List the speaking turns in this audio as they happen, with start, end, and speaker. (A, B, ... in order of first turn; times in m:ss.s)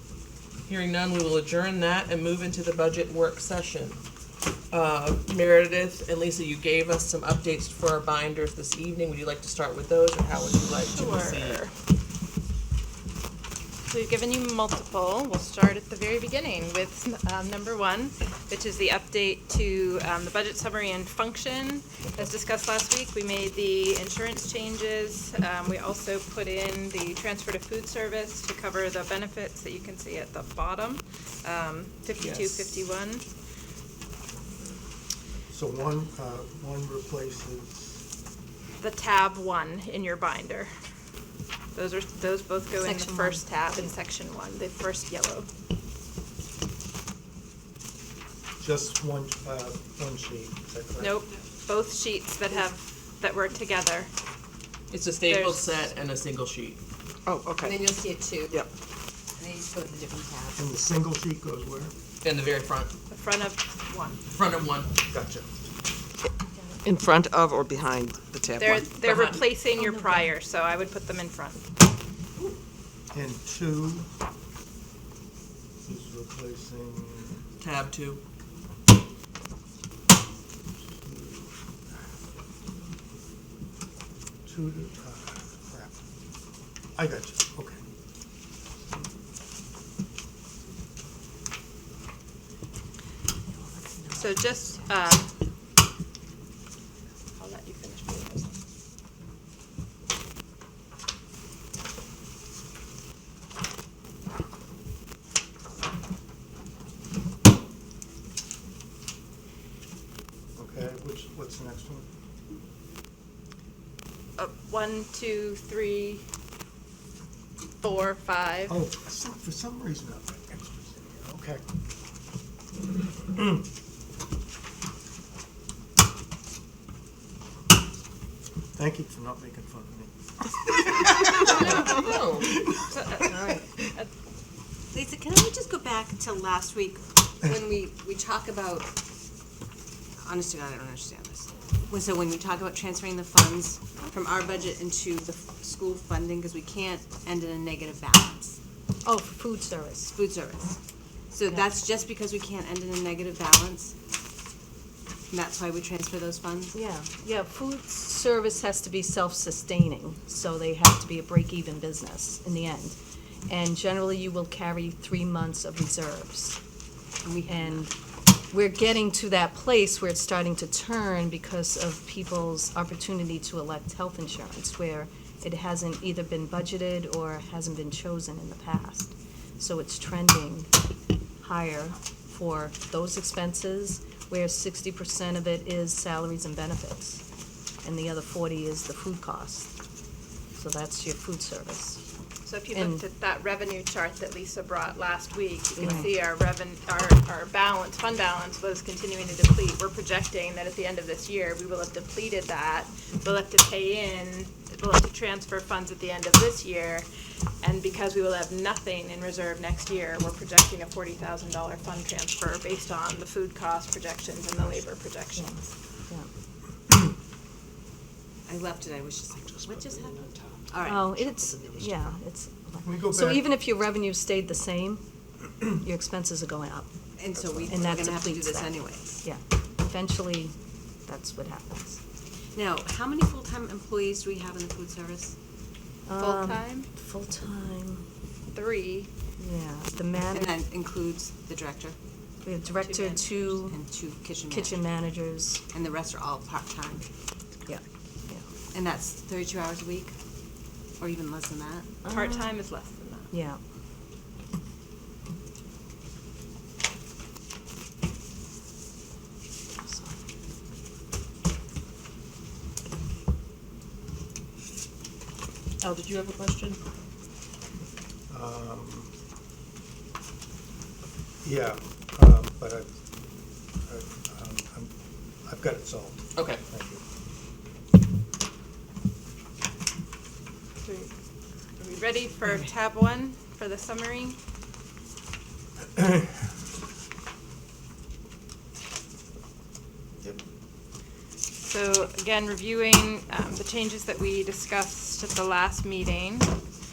0:00.6-0:04.0 A
0:04.7-0:11.6 A
0:10.8-0:11.7 B
0:13.9-0:33.2 B
0:32.2-0:32.8 A
0:35.5-0:38.0 C
0:38.8-0:40.7 B
0:41.7-0:45.5 B
0:42.7-0:43.9 D
0:48.6-0:51.2 C
0:51.0-0:54.1 B
0:54.9-0:56.8 A
0:55.2-0:55.8 B
0:57.2-0:57.8 E
0:57.6-0:58.6 F
0:59.4-1:00.6 F
1:00.6-1:01.9 C
1:02.2-1:02.9 A
1:03.1-1:04.2 B
1:04.3-1:04.9 A
1:05.1-1:05.5 C
1:06.5-1:06.8 D
1:06.8-1:08.9 E
1:08.6-1:11.6 B
1:08.9-1:09.5 A
1:09.7-1:10.3 D
1:13.1-1:14.1 C
1:15.8-1:17.4 C
1:17.6-1:18.2 A
1:20.9-1:21.6 C
1:24.4-1:25.9 C
1:26.9-1:27.8 C
1:34.2-1:35.3 B
1:37.4-1:38.6 B
1:50.6-1:52.1 C
1:54.4-1:56.2 B
1:57.8-1:58.8 B
1:58.7-2:01.6 C
2:03.3-2:03.6 C
2:08.8-2:13.4 C
2:11.4-2:12.6 A
2:12.9-2:14.1 B
2:13.3-2:13.6 D
2:14.9-2:19.0 F
2:20.2-2:28.6 F
2:29.0-2:30.1 D
2:30.1-2:30.8 F
2:31.3-2:33.9 F
2:31.5-2:31.7 D
2:35.6-2:36.1 F
2:36.7-2:46.6 D
2:47.4-2:47.9 D
2:47.6-2:47.8 F
2:48.5-3:00.7 D
3:01.4-3:07.2 D
3:07.8-3:09.7 D
3:10.5-3:12.0 D
3:12.4-3:27.1 B
3:12.7-3:13.0 D
3:15.7-3:16.2 D
3:27.6-3:35.5 B
3:35.3-3:36.3 D
3:38.5-3:38.8 E
3:38.5-3:40.2 F
3:40.8-3:46.9 D
3:42.8-3:43.5 C
3:47.2-3:47.6 F
3:47.3-3:48.0 C
3:47.6-3:52.0 D
3:48.4-3:49.2 F
3:52.5-3:55.3 F
3:56.0-3:58.0 D
3:56.2-3:56.9 B
3:58.5-3:59.1 B
3:59.4-4:00.6 D
4:00.3-4:02.0 F
4:02.4-4:03.8 D
4:02.8-4:03.5 B
4:03.7-4:04.8 F
4:03.9-4:04.4 E
4:04.4-4:05.6 D
4:05.7-4:07.0 F
4:07.6-4:08.6 D
4:08.7-4:10.1 F
4:11.0-4:11.8 F
4:12.0-4:12.6 D
4:12.0-4:13.3 B
4:13.3-4:13.6 D
4:19.8-4:20.2 D
4:25.8-4:26.8 A
4:28.3-4:29.1 C
4:31.4-4:32.9 C
4:33.8-4:34.9 C
4:35.4-4:37.0 C
4:36.4-4:36.6 A
4:40.8-4:41.1 B
4:41.8-4:44.4 B
4:51.6-4:56.5 B